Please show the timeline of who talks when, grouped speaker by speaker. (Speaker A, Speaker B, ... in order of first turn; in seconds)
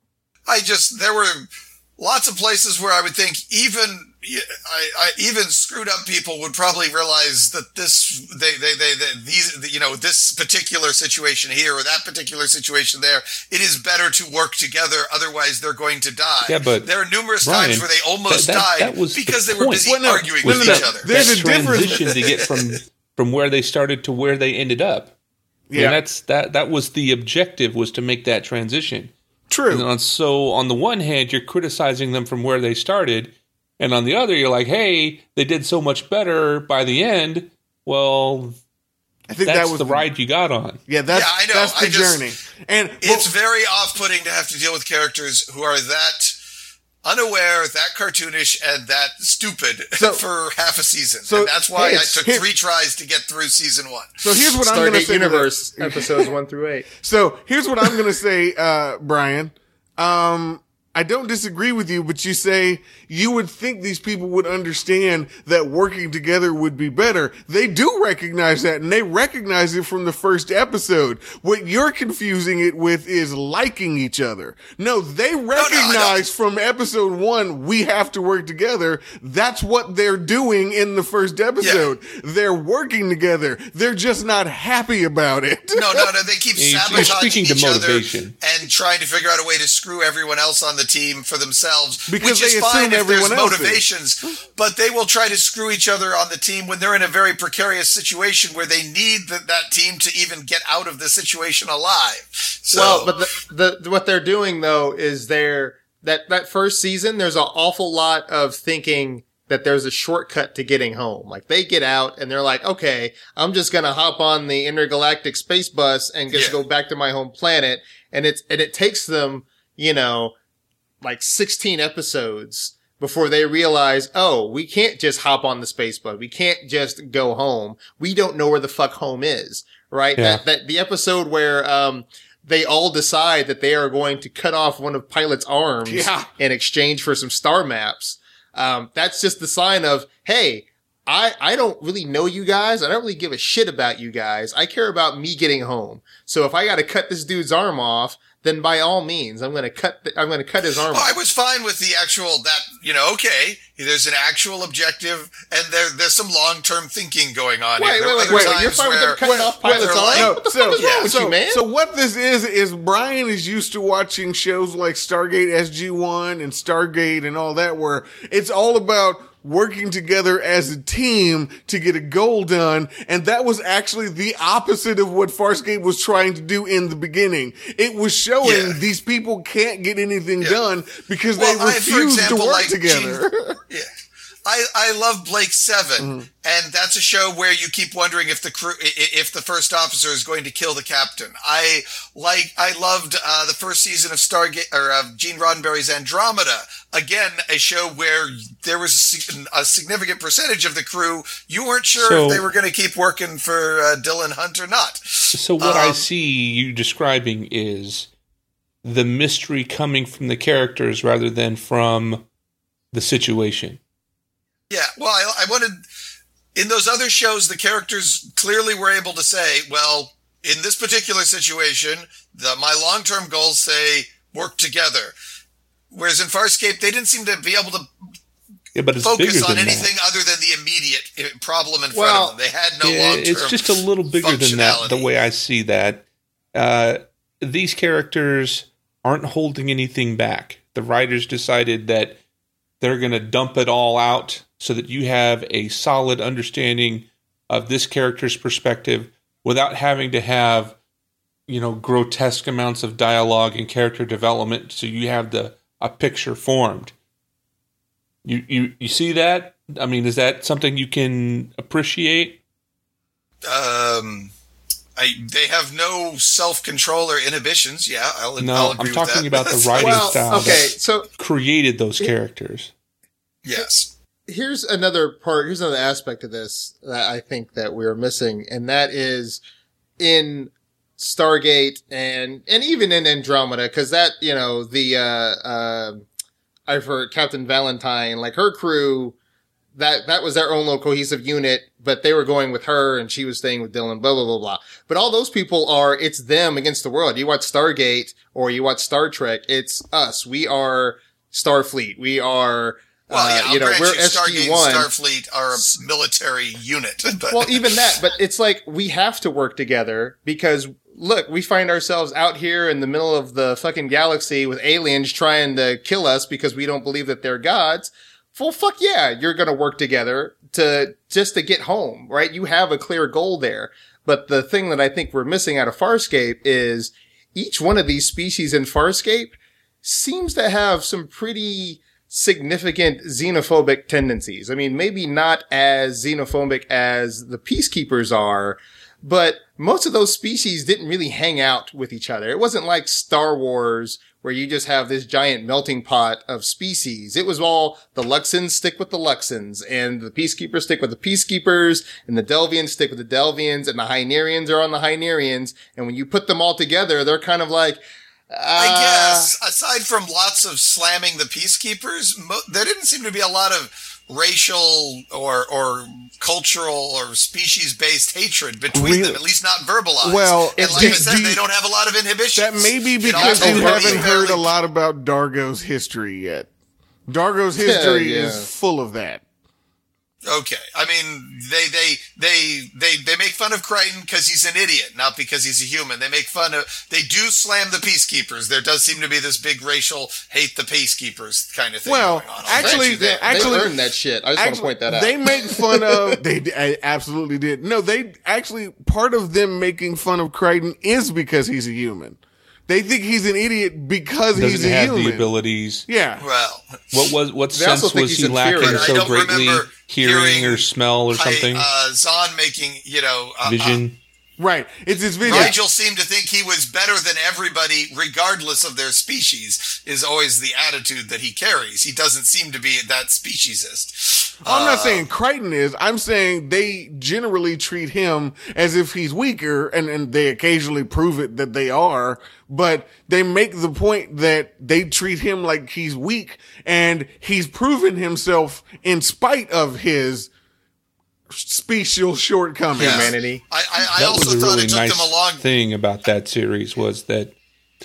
Speaker A: 0.5-22.4, 41.1-42.2, 43.0-46.4, 47.0-54.2, 75.5-76.2, 81.6-81.9, 85.7-103.1, 116.3-116.6, 150.9-161.2, 178.4-178.8, 181.3-183.9, 184.4-206.0, 214.7-215.8, 216.5-225.1, 225.9-227.9, 229.0-235.1, 263.4-264.3, 265.0-270.6, 273.4-273.9, 303.1-307.6, 358.6-374.5, 380.2-393.7, 406.2-407.1, 408.6-413.8, 415.2-425.0, 442.8-445.4
Speaker B: 16.4-16.9, 17.4-25.1, 25.7-29.1, 29.7-38.5, 39.4-40.8, 86.5-88.3, 130.2-130.4, 201.9-202.4, 205.3-208.1, 208.8-212.2, 212.9-213.8, 228.7-229.9, 232.8-242.2, 242.8-250.8, 251.5-256.9, 258.2-262.4, 268.4-272.7, 404.3-405.9, 406.9-411.7, 413.4-414.0, 443.9-447.4
Speaker C: 19.8-22.1, 25.7-26.0, 29.5-29.9, 39.3-40.1, 40.9-43.3, 50.0-50.2, 51.2-52.4, 54.2-56.2, 57.0-86.1, 92.1-93.8, 135.8-136.3, 158.3-158.7, 159.2-183.6, 186.0-186.3, 368.7-369.2, 370.0-371.4, 372.3-376.5, 377.1-379.2, 391.8-393.7, 394.4-405.3, 405.9-406.2, 414.4-415.6, 424.4-440.3, 441.3-443.1
Speaker D: 54.6-56.9, 102.7-120.3, 121.0-151.1, 157.8-161.6, 231.9-232.3, 269.8-271.1, 274.3-279.4, 280.0-286.0, 286.7-289.1, 289.7-304.9, 307.3-359.3, 370.6-371.0, 373.1-374.1, 377.6-378.5, 392.5-396.2, 407.5-409.0, 442.8-443.4